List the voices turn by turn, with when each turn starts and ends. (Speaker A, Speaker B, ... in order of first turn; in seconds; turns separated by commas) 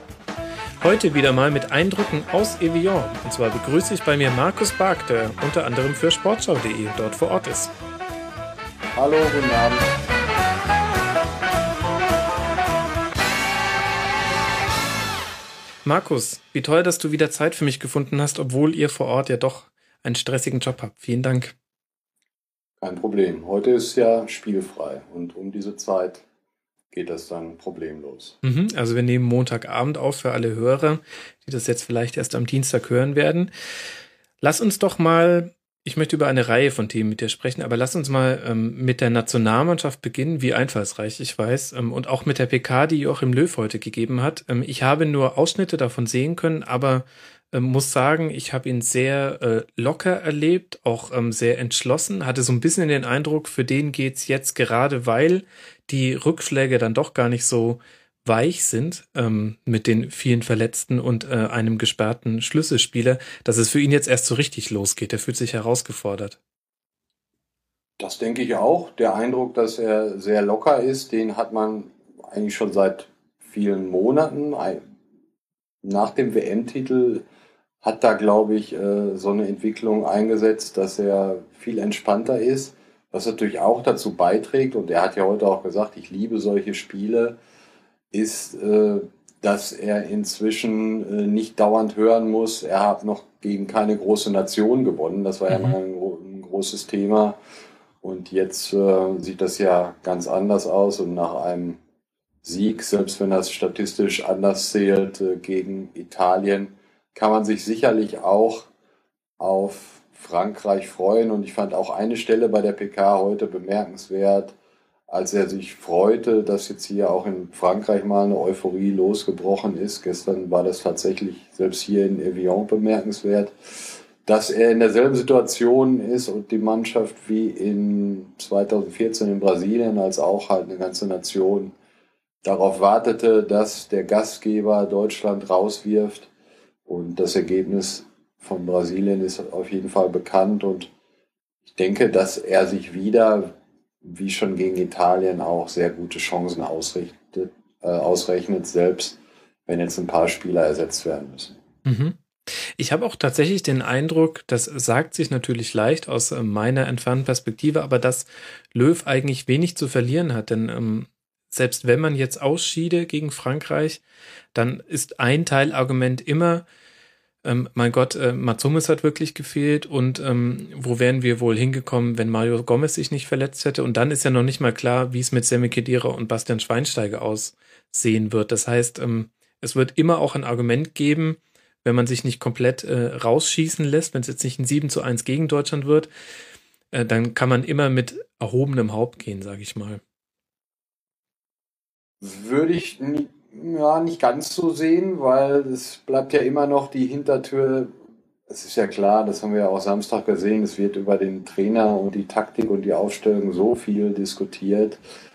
Speaker A: 0.8-7.7, Speaker B: 8.9-9.9, Speaker A: 15.8-21.5, Speaker B: 22.8-26.2, Speaker B: 26.9-28.4, Speaker A: 28.4-33.5, Speaker A: 34.4-66.4, Speaker B: 68.0-74.8, Speaker B: 75.8-77.2, Speaker B: 77.8-87.3, Speaker B: 88.1-97.4, Speaker A: 95.5-95.8, Speaker B: 98.0-101.8, Speaker B: 102.4-108.7, Speaker B: 109.4-114.5, Speaker B: 115.1-123.5, Speaker B: 124.2-131.7, Speaker B: 132.4-136.3, Speaker B: 136.9-140.9, Speaker B: 141.7-151.6, Speaker A: 151.8-164.0, Speaker A: 164.5-166.6, Speaker A: 167.4-186.1, Speaker A: 186.9-190.0, Speaker B: 192.2-197.9, Speaker B: 198.5-205.0